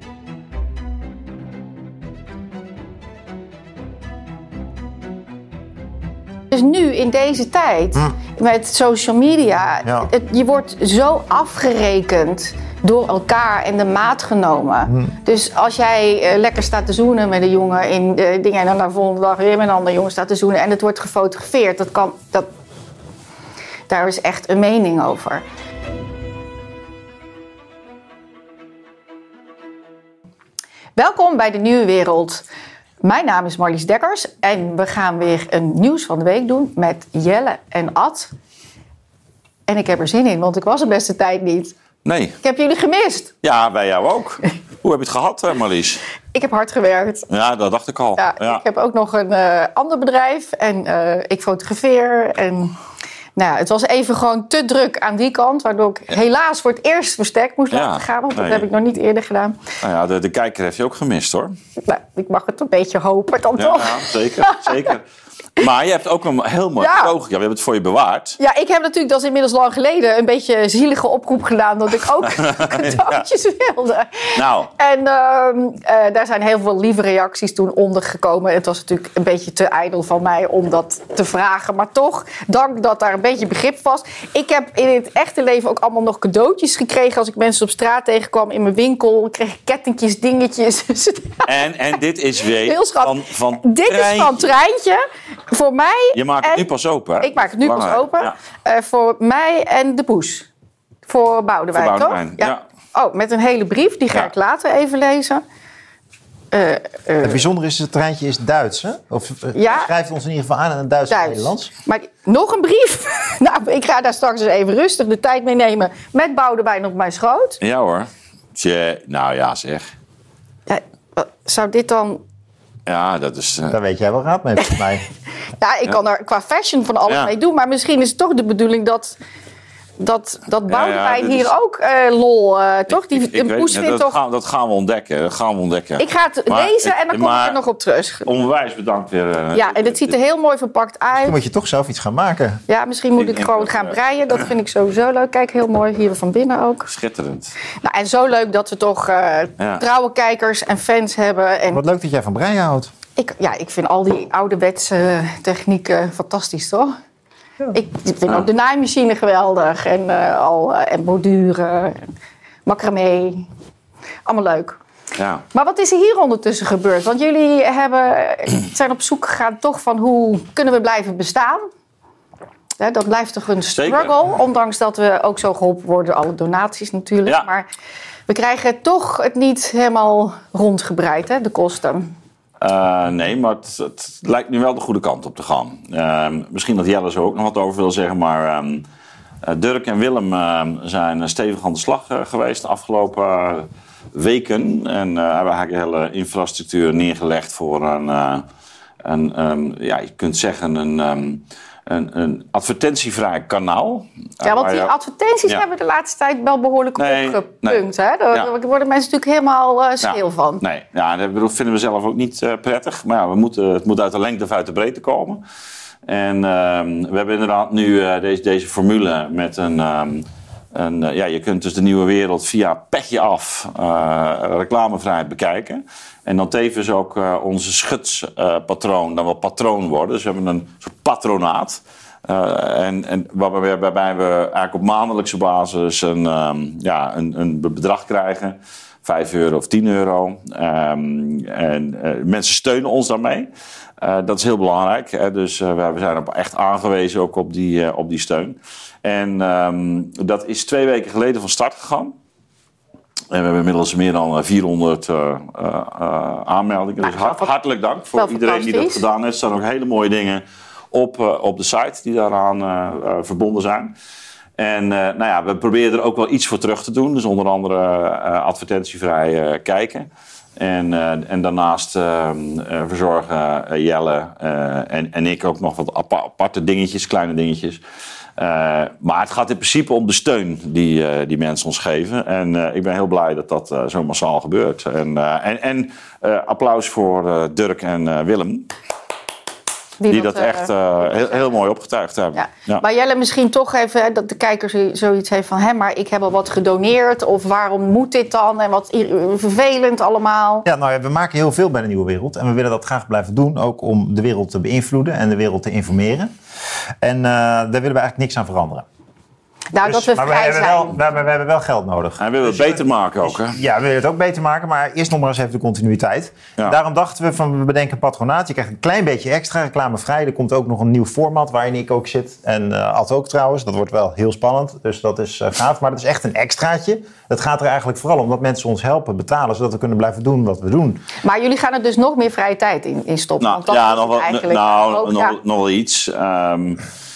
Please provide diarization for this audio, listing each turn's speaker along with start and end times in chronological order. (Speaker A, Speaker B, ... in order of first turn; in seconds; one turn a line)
Speaker A: 6.5-22.5
Speaker B: 9.8-10.1
Speaker A: 23.9-25.4
Speaker A: 30.9-32.4
Speaker A: 33.0-38.3
Speaker A: 39.7-41.7
Speaker C: 42.0-42.4
Speaker A: 42.4-43.3
Speaker C: 43.4-46.0
Speaker A: 46.3-47.3
Speaker C: 47.3-48.6
Speaker A: 48.1-52.7
Speaker A: 53.4-59.6
Speaker C: 57.7-58.7
Speaker C: 59.8-61.5
Speaker A: 61.8-64.9
Speaker C: 63.6-65.0
Speaker C: 65.6-68.4
Speaker A: 66.8-67.1
Speaker A: 68.4-91.5
Speaker C: 72.4-73.2
Speaker C: 74.3-74.7
Speaker C: 91.5-94.5
Speaker A: 92.6-96.6
Speaker C: 96.1-98.3
Speaker A: 97.2-100.5
Speaker A: 101.1-105.4
Speaker C: 101.7-102.6
Speaker A: 106.5-107.4
Speaker B: 107.2-111.7
Speaker A: 109.5-109.9
Speaker A: 111.1-117.6
Speaker C: 117.6-119.9
Speaker A: 120.7-122.2
Speaker C: 122.9-123.8
Speaker B: 123.7-125.0
Speaker A: 125.6-129.2
Speaker A: 130.0-134.2
Speaker C: 130.7-131.5
Speaker C: 132.9-137.6
Speaker A: 136.0-138.3
Speaker C: 138.2-140.1
Speaker A: 139.5-141.3
Speaker B: 141.1-142.6
Speaker A: 142.7-146.9
Speaker C: 143.2-144.0
Speaker C: 146.9-147.6
Speaker A: 147.8-151.8
Speaker B: 151.7-152.9
Speaker A: 153.2-156.9
Speaker A: 157.7-162.1
Speaker A: 162.7-163.4
Speaker A: 164.2-164.8
Speaker C: 165.2-165.4
Speaker A: 165.5-171.6
Speaker A: 172.8-177.7
Speaker C: 173.8-174.2
Speaker A: 178.3-182.1
Speaker C: 182.6-188.8
Speaker C: 189.4-198.4
Speaker C: 199.0-204.9
Speaker A: 204.4-210.6
Speaker C: 207.0-208.5
Speaker C: 210.0-215.4
Speaker C: 216.1-252.1
Speaker C: 253.3-263.9
Speaker A: 257.0-257.5
Speaker A: 258.1-259.0
Speaker C: 264.6-277.8
Speaker C: 278.4-288.7
Speaker A: 290.0-290.7
Speaker C: 290.1-292.8
Speaker A: 292.3-300.6
Speaker B: 300.6-306.3
Speaker B: 307.0-308.8
Speaker A: 309.7-310.9
Speaker B: 309.8-331.0
Speaker C: 312.2-313.6
Speaker A: 331.2-335.4
Speaker C: 333.4-336.8